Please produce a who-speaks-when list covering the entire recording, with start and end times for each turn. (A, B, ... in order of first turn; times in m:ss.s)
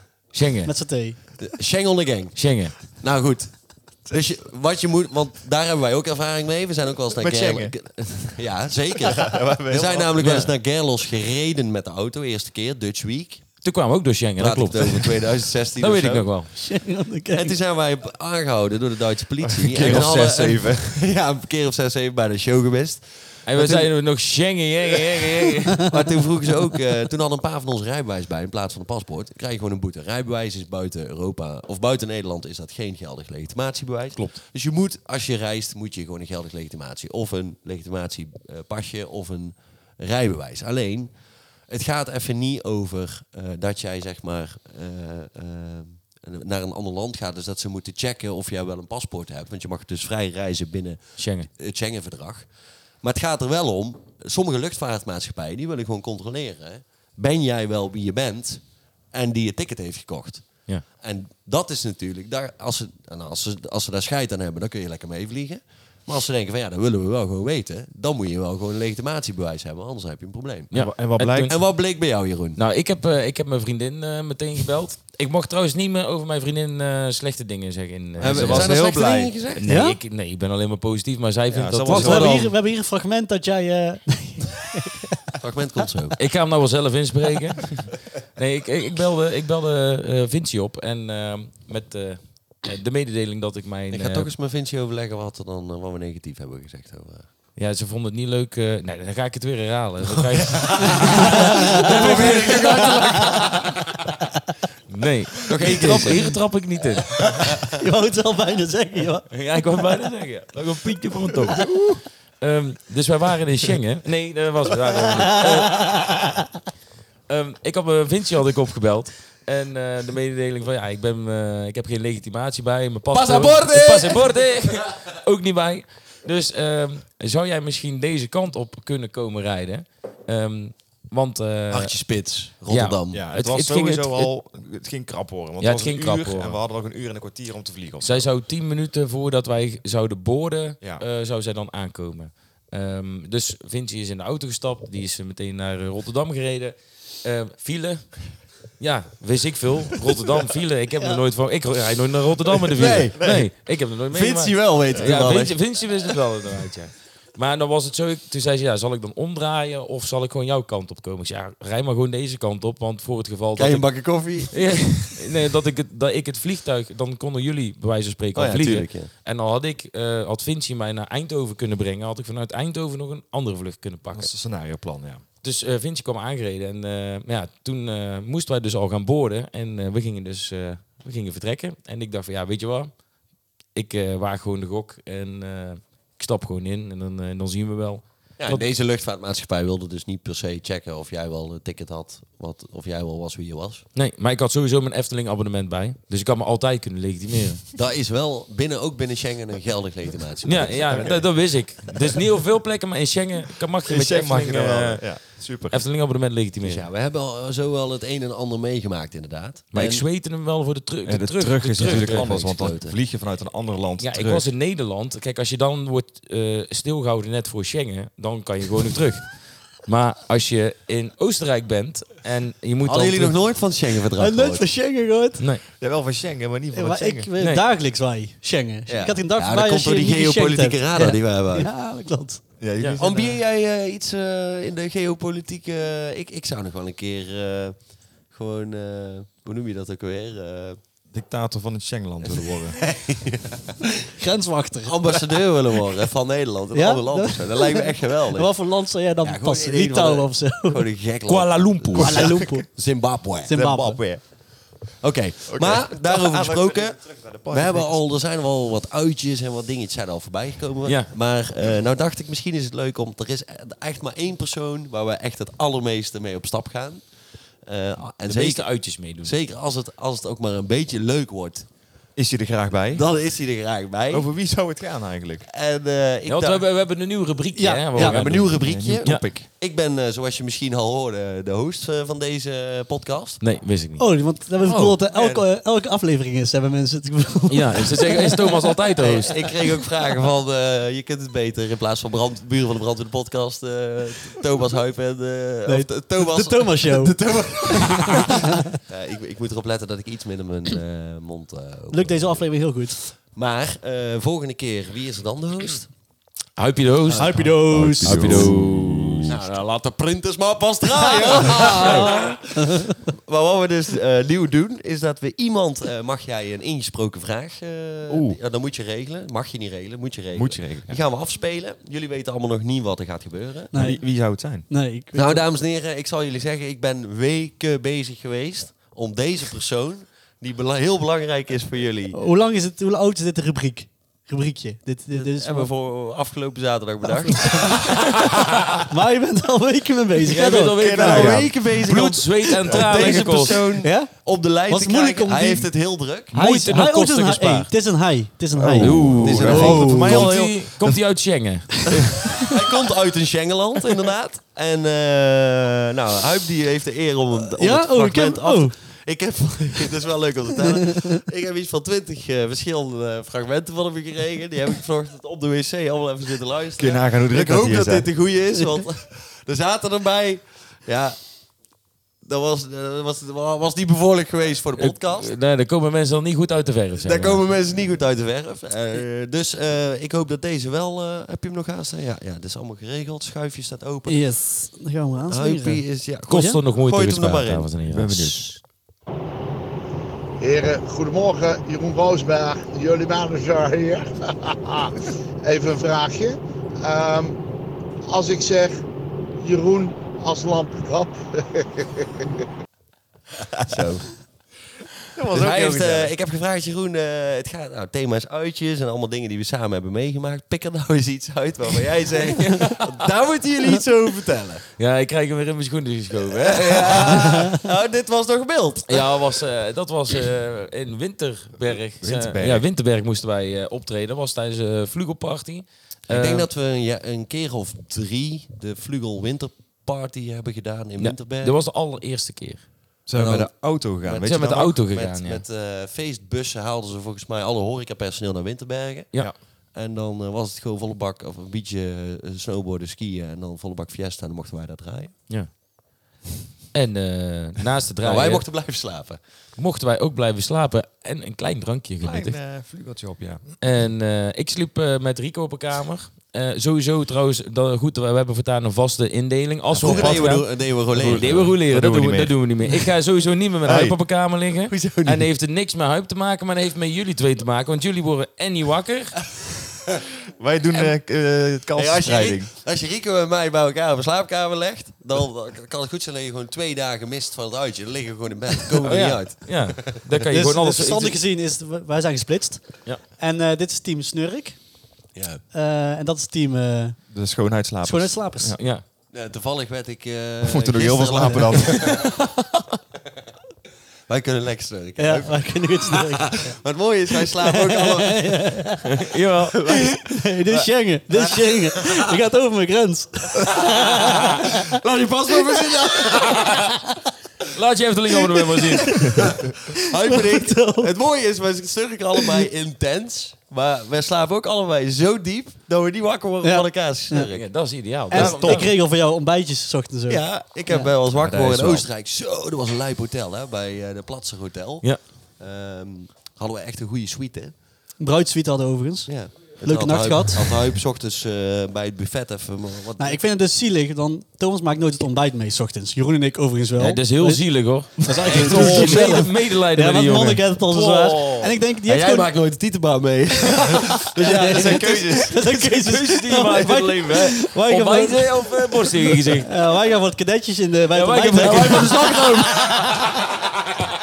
0:00.3-0:00.7 A
0:00.6-0:01.4 B
0:01.4-0:13.6 C
0:02.4-0:02.8 A
0:07.2-0:08.2 D
0:09.0-0:10.5 D
0:13.6-0:16.5 A
0:14.4-0:16.6 C
0:16.6-0:17.6 B
0:17.3-0:23.9 C
0:19.4-0:20.9 D
0:23.4-0:25.9 A
0:25.8-1:10.7 C
0:51.2-0:51.5 A
1:10.7-1:11.6 A
1:10.7-1:11.6 D
1:11.5-1:12.6 C
1:12.6-1:18.8 A
1:18.2-1:19.7 C
1:18.2-1:19.5 D
1:19.6-1:22.5 A
1:19.7-1:20.0 B
1:21.5-1:22.5 D
1:21.9-1:25.3 B
1:25.4-1:26.2 C
1:26.2-1:34.3 A
1:33.9-1:37.3 C
1:37.6-1:43.5 A
1:40.2-1:43.8 C
1:41.2-1:42.5 B
1:44.9-1:47.3 A
1:45.5-1:46.4 C
1:47.4-1:47.7 C
1:47.6-1:49.3 B
1:49.3-1:51.8 A
1:51.7-1:52.0 D
1:52.4-1:55.8 A
1:55.7-1:56.2 B
1:57.3-2:12.0 A
2:03.1-2:04.4 C
2:11.7-2:13.2 C
2:12.7-2:14.3 A
2:13.1-2:18.3 D
2:15.6-2:16.6 A
2:18.0-2:54.3 A
2:32.7-2:33.3 C
2:33.2-2:33.4 D
2:34.1-2:35.8 C
2:43.6-2:45.2 C
2:48.4-2:49.1 C
2:54.1-2:55.2 D
2:55.4-3:03.0 A
3:03.7-3:08.7 A
3:08.4-3:13.8 C
3:14.0-3:17.6 A
3:17.8-3:21.3 C
3:20.4-3:26.9 A
3:20.7-3:21.8 D
3:23.9-3:25.8 D
3:26.6-3:30.0 C
3:29.7-3:32.5 A
3:31.1-3:34.4 D
3:31.8-3:33.0 C
3:34.0-3:43.4 A
3:42.8-3:44.7 C
3:44.2-3:45.4 B
3:45.4-3:45.6 A
3:45.8-3:47.3 D
3:46.7-3:52.4 B
3:47.4-3:47.6 A
3:48.9-3:51.7 C
3:52.6-3:53.4 D
3:53.0-4:00.8 C
4:01.1-4:02.8 D
4:02.2-4:04.1 C
4:04.2-4:05.2 B
4:04.8-4:08.5 C
4:06.7-4:10.9 B
4:09.2-4:13.6 C
4:11.3-4:12.0 A
4:11.6-4:12.7 D
4:12.0-4:12.7 B
4:13.4-4:14.0 B
4:13.5-4:14.2 D
4:15.0-4:31.7 C
4:15.5-4:18.0 D
4:20.8-4:21.1 A
4:28.2-4:29.3 A
4:32.2-4:33.0 D
4:32.9-4:34.3 C
4:34.1-4:35.5 D
4:35.5-4:36.6 C
4:36.3-4:39.2 A
4:37.6-4:38.2 B
4:38.0-4:43.4 C
4:38.3-4:39.5 D
4:43.4-4:44.1 A
4:44.0-4:48.7 B
4:45.0-4:45.5 D
4:47.5-4:49.4 A
4:49.0-4:58.4 C
4:55.7-4:58.4 B
4:58.9-5:05.9 C
5:01.9-5:03.0 B
5:06.6-5:09.5 A
5:07.1-5:08.5 B
5:07.4-5:09.3 D
5:09.3-5:23.7 C
5:11.2-5:12.0 B
5:11.6-5:12.0 A
5:18.1-5:18.4 D
5:20.4-5:21.0 D
5:23.7-5:25.4 B
5:23.7-5:24.7 D
5:25.1-5:32.2 C
5:32.1-5:35.7 B
5:35.1-5:38.2 C
5:37.1-5:38.0 B
5:38.9-5:41.2 B
5:40.3-5:43.6 A
5:40.8-5:41.6 D
5:40.8-5:46.3 C
5:42.7-5:43.1 D
5:42.9-5:43.3 B
5:43.8-5:50.3 B
5:46.3-5:47.7 A
5:48.6-5:51.1 D
5:48.8-5:52.4 A
5:49.2-5:50.1 C
5:52.5-6:11.2 C
5:57.6-5:58.7 B
6:00.9-6:01.2 B
6:06.8-6:08.2 D
6:12.2-6:15.3 C
6:14.8-6:17.4 A
6:17.0-6:24.4 C
6:24.1-6:26.6 B
6:25.3-6:27.7 C
6:26.3-6:28.5 A
6:27.9-6:28.5 D
6:30.4-6:37.4 E
6:38.1-6:38.8 E
6:39.4-6:42.4 E
6:43.7-6:44.1 C
6:45.1-6:46.1 D
6:45.3-6:54.6 C
6:54.8-6:57.3 A
6:56.2-6:59.1 C
6:58.9-7:06.5 A
7:02.0-7:02.6 D
7:06.1-7:11.6 C
7:11.0-7:12.6 A
7:13.1-7:14.8 D
7:13.2-7:13.5 C
7:14.0-7:25.2 C
7:14.1-7:15.4 A
7:26.7-7:28.5 A
7:28.0-7:29.2 C
7:29.6-7:32.4 A
7:32.0-7:33.6 D
7:33.6-7:49.2 A
7:39.7-7:42.9 D
7:39.8-7:41.6 C
7:43.6-7:44.0 D
7:44.7-7:45.3 C
7:50.4-7:52.5 D
7:51.7-8:00.0 C
7:58.8-8:01.2 A
8:00.3-8:04.8 B
8:05.1-8:05.4 C
8:05.5-8:07.1 B
8:07.1-8:08.6 D
8:07.8-8:08.5 B
8:08.6-8:08.8 A
8:09.1-8:12.2 C
8:10.4-8:12.1 D
8:14.1-8:18.4 C
8:15.0-8:16.6 B
8:17.2-8:18.9 B
8:18.9-8:19.6 A
8:19.7-8:24.8 B
8:21.3-8:22.0 C
8:23.6-8:26.6 C
8:26.1-8:26.7 B
8:27.5-8:29.0 A
8:28.5-8:30.9 B
8:29.2-8:37.5 C
8:36.4-8:37.3 B
8:37.3-8:38.8 A
8:38.1-8:40.9 B
8:38.1-8:38.6 D
8:40.1-8:47.5 C
8:41.1-8:41.9 D
8:48.0-8:50.6 B
8:49.1-8:53.2 C
8:53.0-9:02.3 B
8:56.8-9:00.4 A
8:58.2-8:59.2 D
9:00.6-9:01.6 D
9:01.8-9:05.2 C
9:04.2-9:08.9 B
9:04.2-9:06.0 D
9:05.5-9:09.5 A
9:09.4-9:13.1 B
9:10.9-9:12.1 A
9:11.6-9:12.8 C